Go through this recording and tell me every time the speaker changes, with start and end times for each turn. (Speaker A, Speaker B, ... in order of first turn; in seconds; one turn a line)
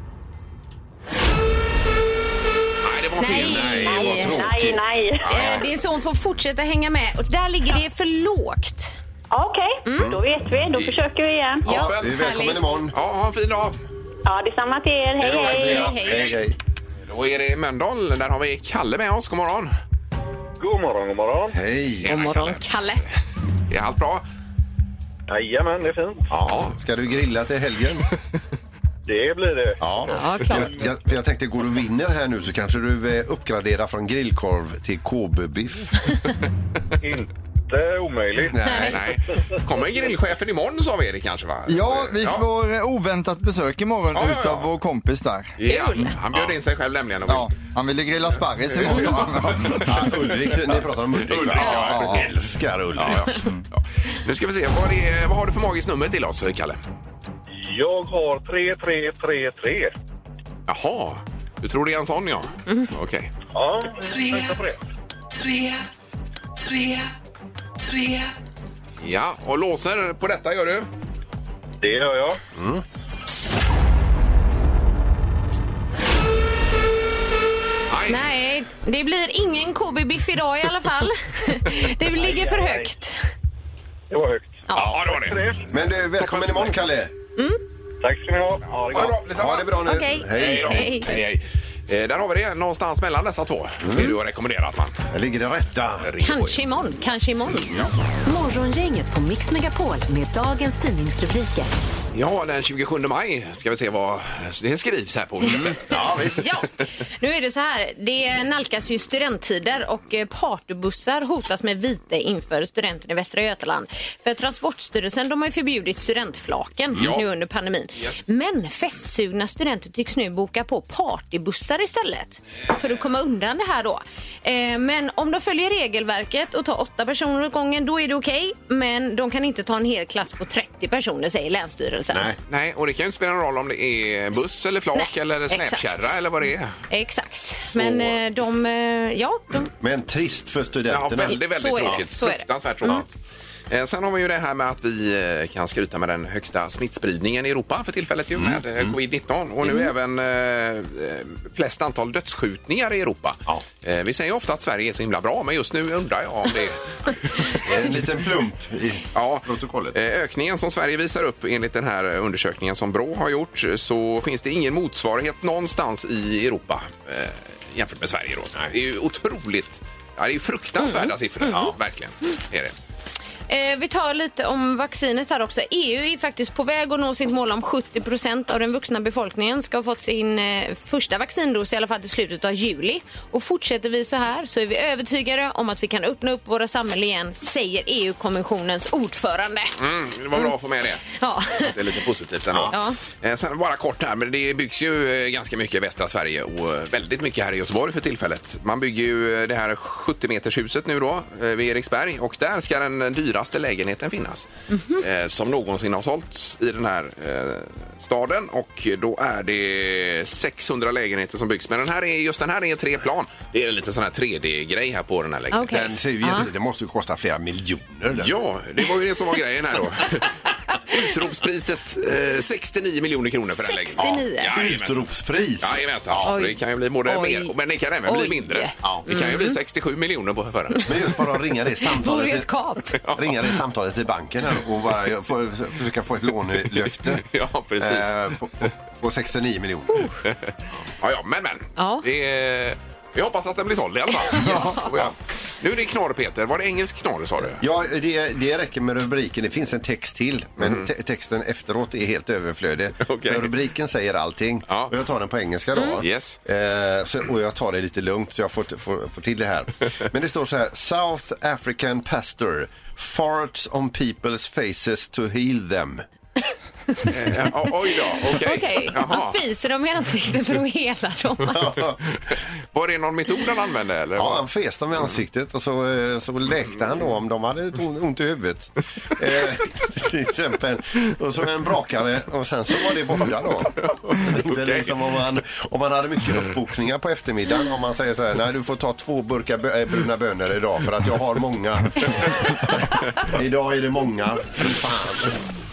Speaker A: 2.8-3.8
Speaker B: 3.2-4.3
Speaker C: 3.2-4.8
Speaker D: 3.8-5.5
Speaker A: 5.2-5.7
Speaker B: 5.2-8.9
Speaker D: 9.3-11.7
Speaker B: 9.8-10.2
Speaker B: 11.6-12.8
Speaker A: 11.7-12.2
Speaker C: 11.7-12.9
Speaker A: 12.9-13.8
Speaker D: 14.2-15.9
Speaker C: 15.2-16.6
Speaker B: 15.3-16.4
Speaker A: 17.1-19.7
Speaker E: 20.6-21.6
Speaker C: 21.5-22.1
Speaker A: 22.0-22.6
Speaker B: 22.1-23.0
Speaker A: 23.7-24.2
Speaker E: 25.3-26.2
Speaker C: 26.3-28.0
Speaker A: 26.4-26.8
Speaker E: 29.1-30.9
Speaker C: 29.8-36.2
Speaker B: 30.1-30.7
Speaker E: 37.0-38.6
Speaker C: 38.5-39.0
Speaker A: 38.7-42.4
Speaker F: 41.7-45.5
Speaker A: 44.1-44.7
Speaker A: 45.6-47.5
Speaker B: 45.6-46.1
Speaker F: 47.3-50.2
Speaker A: 48.8-50.5
Speaker C: 49.7-53.4
Speaker A: 51.2-52.4
Speaker F: 51.7-52.3
Speaker A: 52.9-56.8
Speaker E: 57.6-59.9
Speaker A: 60.7-63.3
Speaker E: 63.5-64.8
Speaker A: 69.0-70.9
Speaker E: 71.8-72.4
Speaker C: 72.5-72.8
Speaker A: 77.9-78.3
Speaker B: 78.1-83.2
Speaker E: 82.2-82.7
Speaker E: 84.1-85.7
Speaker B: 84.7-84.9
Speaker C: 84.7-85.0
Speaker A: 84.7-85.4
Speaker C: 85.7-87.1
Speaker A: 86.2-86.8
Speaker E: 88.0-89.2
Speaker A: 88.9-89.8
Speaker C: 89.2-91.1
Speaker B: 89.8-91.2
Speaker A: 90.3-95.0
Speaker C: 93.8-94.1
Speaker C: 95.1-96.1
Speaker A: 96.0-96.6
Speaker B: 96.2-97.8
Speaker G: 98.2-101.7
Speaker A: 102.1-106.2
Speaker C: 105.5-106.5
Speaker B: 106.3-132.3
Speaker A: 116.9-117.2
Speaker A: 118.0-118.2
Speaker C: 132.1-132.4
Speaker A: 132.5-136.7
Speaker B: 134.9-136.1
Speaker B: 136.9-139.7
Speaker C: 137.7-138.2
Speaker C: 139.8-142.0
Speaker A: 140.9-143.1
Speaker B: 141.3-143.0
Speaker A: 143.7-157.6
Speaker C: 148.4-148.9
Speaker C: 157.6-159.9
Speaker A: 159.1-172.7
Speaker B: 170.8-171.6
Speaker B: 173.5-189.7
Speaker A: 189.8-191.1
Speaker B: 191.1-191.7
Speaker A: 191.6-215.8
Speaker B: 192.7-193.0
Speaker B: 204.7-205.0
Speaker B: 215.5-216.5
Speaker C: 215.7-218.3
Speaker A: 218.2-220.3
Speaker A: 220.9-225.0
Speaker B: 223.5-224.6
Speaker C: 224.0-226.3
Speaker A: 225.6-230.9
Speaker B: 226.2-227.5
Speaker B: 228.1-229.6
Speaker C: 230.8-232.5
Speaker B: 231.8-232.9
Speaker A: 233.0-233.5
Speaker C: 233.1-237.2
Speaker A: 236.8-238.1
Speaker C: 237.8-240.1
Speaker B: 239.9-240.2
Speaker A: 241.0-247.6
Speaker B: 241.8-242.0
Speaker B: 244.3-244.9
Speaker C: 244.4-244.9
Speaker C: 247.6-266.0
Speaker A: 250.6-250.9
Speaker A: 253.0-253.5
Speaker B: 255.7-256.0
Speaker A: 256.0-256.4
Speaker A: 267.1-269.4
Speaker B: 268.2-271.7
Speaker C: 271.4-272.0
Speaker A: 272.7-274.4
Speaker C: 274.2-295.3
Speaker A: 283.8-284.9